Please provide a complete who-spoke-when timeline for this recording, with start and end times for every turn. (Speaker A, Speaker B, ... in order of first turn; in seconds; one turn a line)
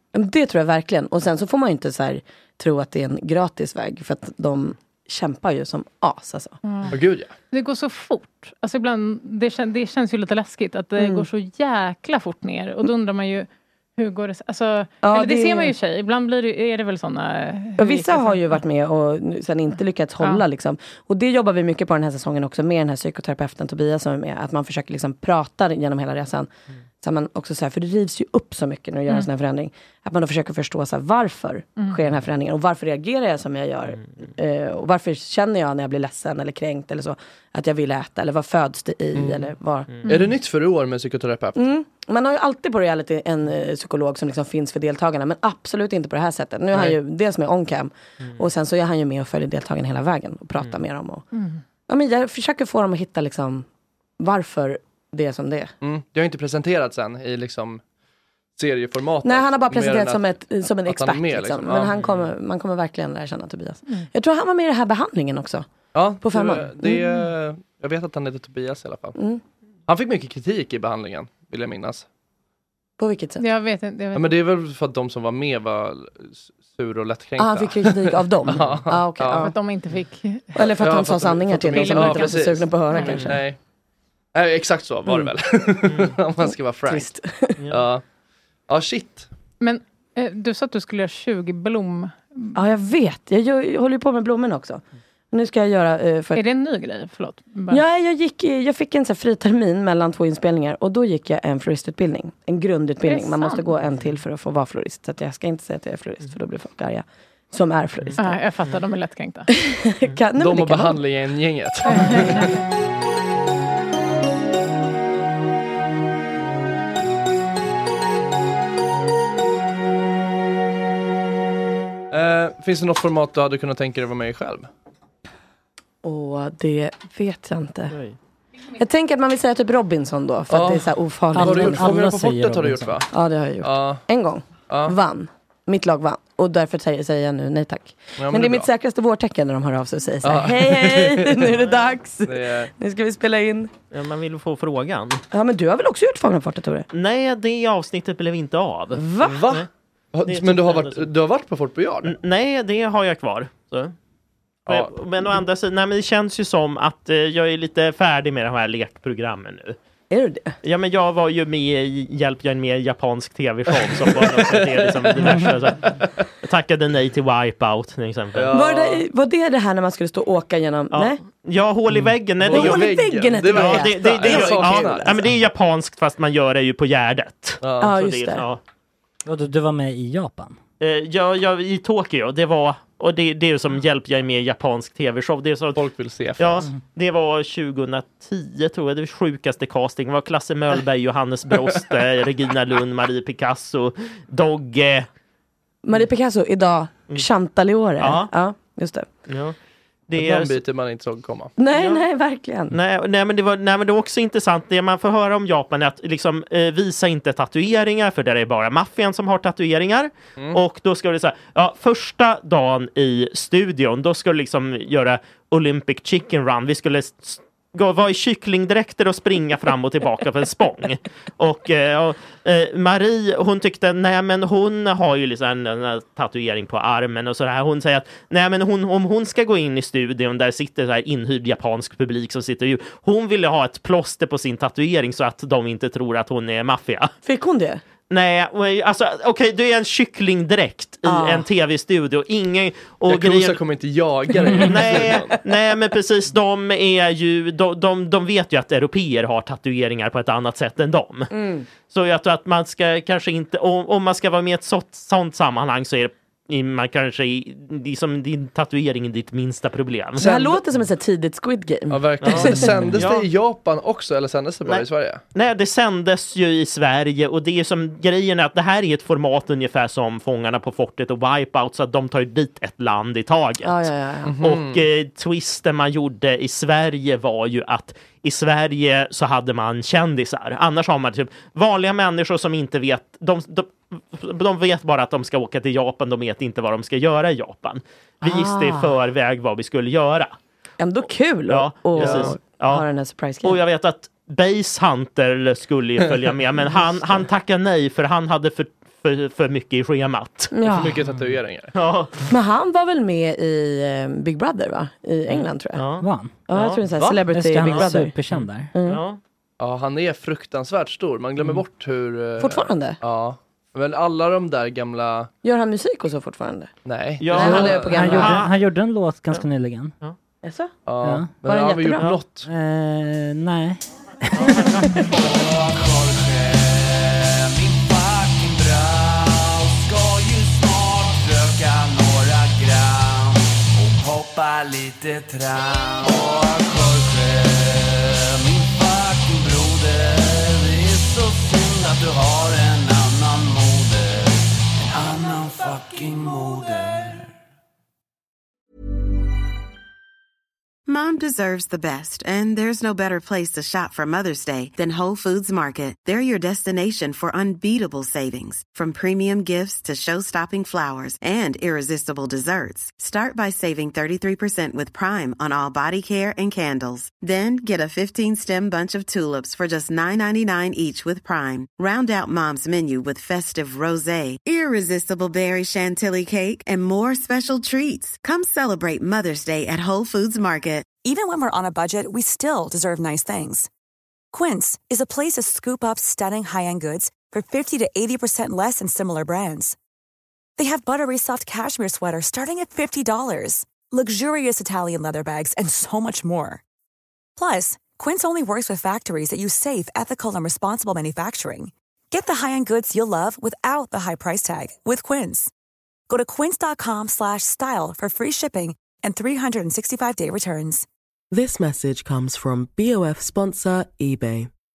Speaker A: 0.1-6.6
Speaker B: 6.6-6.9
Speaker C: 6.9-7.3
Speaker B: 7.5-18.6
Speaker A: 11.0-11.2
Speaker A: 15.0-15.7
Speaker A: 17.8-26.5
Speaker B: 20.2-20.4
Speaker A: 27.0-40.0
Speaker C: 39.1-39.5
Speaker B: 40.0-40.3
Speaker C: 40.0-41.6
Speaker A: 41.6-51.2
Speaker C: 46.7-47.0
Speaker B: 51.3-51.6
Speaker A: 51.9-53.6
Speaker A: 54.2-55.7
Speaker C: 55.8-57.8
Speaker C: 58.5-62.0
Speaker A: 59.2-65.7
Speaker C: 65.9-69.2
Speaker A: 66.2-67.1
Speaker C: 69.9-72.1
Speaker A: 73.0-73.4
Speaker B: 73.4-74.4
Speaker C: 74.1-79.5
Speaker A: 77.4-79.5
Speaker B: 79.4-80.6
Speaker A: 80.5-83.4
Speaker C: 80.6-83.6
Speaker B: 81.7-83.2
Speaker C: 84.3-87.1
Speaker A: 85.1-85.3
Speaker A: 86.9-87.6
Speaker C: 87.7-88.0
Speaker C: 88.7-89.3
Speaker B: 89.6-92.6
Speaker A: 92.5-96.4
Speaker B: 96.3-97.8
Speaker A: 97.7-108.4
Speaker B: 103.1-103.7
Speaker B: 108.2-109.5
Speaker A: 109.5-111.0
Speaker C: 110.3-112.6
Speaker B: 111.8-112.6
Speaker C: 122.1-124.7
Speaker A: 126.0-128.0
Speaker A: 128.8-132.0
Speaker C: 130.5-133.1
Speaker D: 131.3-133.0
Speaker A: 133.1-143.7
Speaker C: 133.6-134.0
Speaker C: 134.7-134.9
Speaker C: 138.2-138.7
Speaker C: 140.2-142.7
Speaker E: 143.9-145.2
Speaker A: 145.3-146.9
Speaker E: 146.9-149.7
Speaker A: 148.9-149.5
Speaker C: 149.2-152.2
Speaker E: 150.2-151.1
Speaker E: 152.0-153.9
Speaker C: 154.7-155.0
Speaker E: 154.7-159.8
Speaker A: 160.1-160.6
Speaker E: 160.6-168.5
Speaker C: 163.9-166.2
Speaker C: 168.3-169.0
Speaker A: 168.5-171.2
Speaker E: 170.9-172.9
Speaker C: 172.4-175.2
Speaker A: 172.4-175.1
Speaker E: 173.4-178.6
Speaker C: 177.6-178.0
Speaker A: 177.8-178.4
Speaker D: 179.2-180.6
Speaker E: 180.8-185.8
Speaker C: 185.7-186.7
Speaker E: 186.4-195.1
Speaker A: 195.8-199.1
Speaker E: 198.0-198.3
Speaker E: 199.3-199.5
Speaker E: 200.1-200.6
Speaker C: 200.1-201.5
Speaker A: 201.6-202.7
Speaker E: 201.7-202.0
Speaker E: 202.7-237.1
Speaker A: 237.2-237.8
Speaker E: 238.1-243.6
Speaker A: 241.0-241.5
Speaker C: 243.1-245.4
Speaker E: 244.6-251.3
Speaker A: 251.3-251.7
Speaker E: 251.9-260.2
Speaker C: 260.2-260.6
Speaker A: 260.2-262.7
Speaker C: 261.9-265.2
Speaker E: 262.2-263.3
Speaker E: 264.6-290.3
Speaker A: 273.6-274.4
Speaker C: 274.2-274.8
Speaker A: 288.2-288.9
Speaker A: 290.8-293.6
Speaker E: 291.5-292.9
Speaker C: 291.9-292.4
Speaker E: 293.4-300.5
Speaker A: 300.5-301.0
Speaker C: 300.6-301.7
Speaker E: 301.7-302.1
Speaker A: 302.3-305.9
Speaker E: 305.7-306.8
Speaker D: 306.0-306.4
Speaker A: 306.5-308.2
Speaker C: 306.9-308.1
Speaker D: 307.2-308.7
Speaker E: 307.6-309.2
Speaker A: 308.7-309.0
Speaker C: 309.6-315.3
Speaker A: 312.4-313.0
Speaker A: 315.4-316.7
Speaker C: 316.9-318.3
Speaker E: 317.2-318.5
Speaker A: 317.3-318.4
Speaker D: 317.5-319.9
Speaker A: 320.4-320.7
Speaker C: 320.9-322.5
Speaker D: 321.0-321.3
Speaker A: 321.4-322.2
Speaker D: 322.4-325.0
Speaker E: 324.4-324.9
Speaker F: 325.1-347.3
Speaker G: 350.9-380.9
Speaker H: 381.0-383.7
Speaker H: 384.3-389.8
Speaker H: 390.6-396.6
Speaker H: 397.4-405.5
Speaker H: 406.1-410.9
Speaker I: 411.3-414.5